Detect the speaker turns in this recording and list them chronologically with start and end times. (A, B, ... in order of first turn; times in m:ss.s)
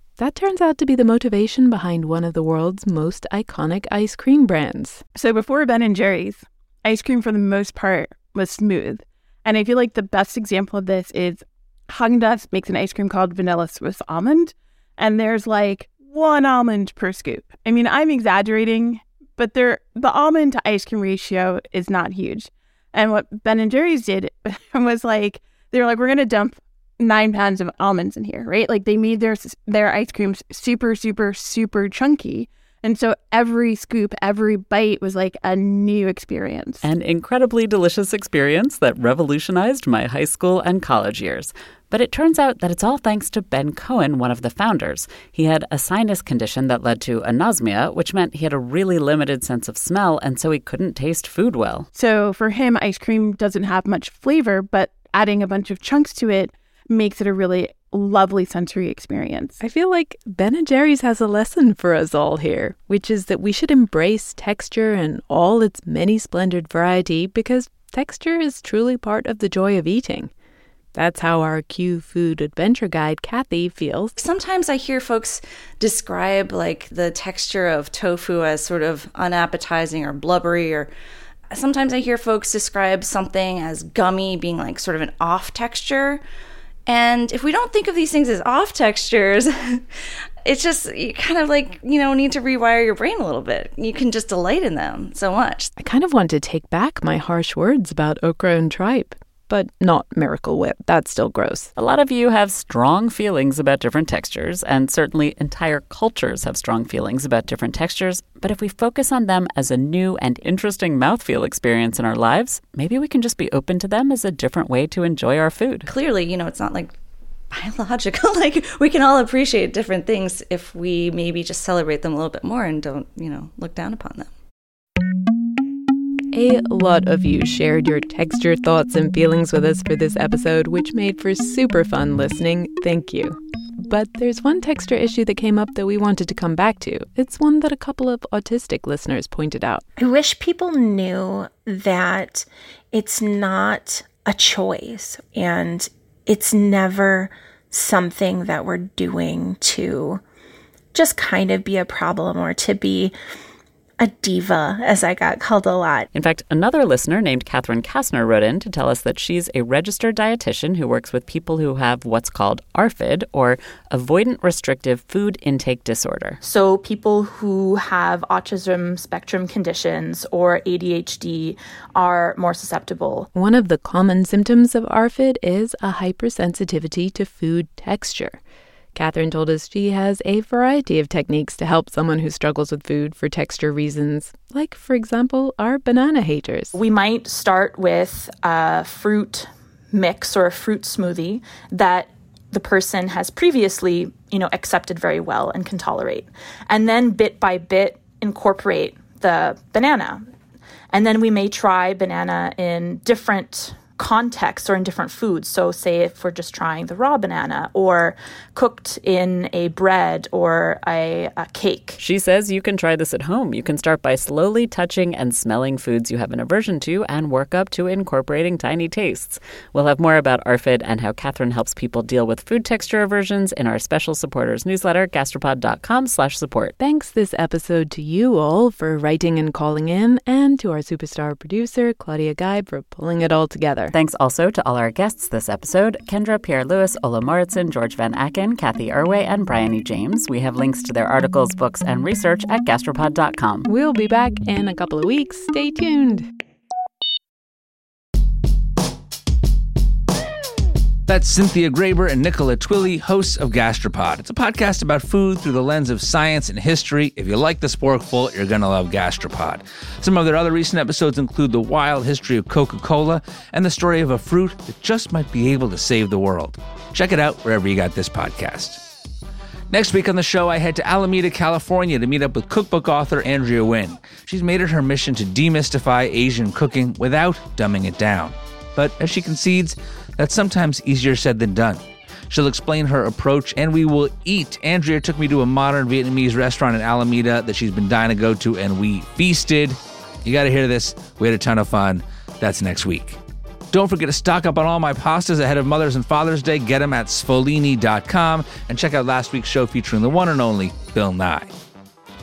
0:00.2-0:05.0 A
0:05.2-0:36.8 B
0:36.8-0:51.9 C
0:51.9-0:59.6 B
0:59.6-1:10.3 A
1:11.0-1:14.2 A
1:14.2-1:20.9 D
1:21.5-1:26.2 D
1:26.9-1:29.8 D
1:30.5-1:35.7 D
1:35.8-1:41.7 A
1:41.8-1:55.9 C
1:55.9-1:56.9 D
1:57.5-2:04.3 D
2:06.3-2:19.8 A
2:20.0-2:30.2 E
2:30.9-2:33.2 E
2:34.0-2:36.1 E
2:36.1-2:46.4 C
2:46.4-2:53.3 F
2:53.4-2:58.4 A
2:59.0-3:06.8 A
3:06.7-3:20.2 F
3:20.9-3:32.0 F
3:32.0-3:46.7 C
3:46.8-3:53.9 A
3:53.9-4:03.7 C
4:03.7-4:06.3 A
4:11.1-4:28.8 G
4:29.7-4:53.2 G
4:53.7-5:01.5 G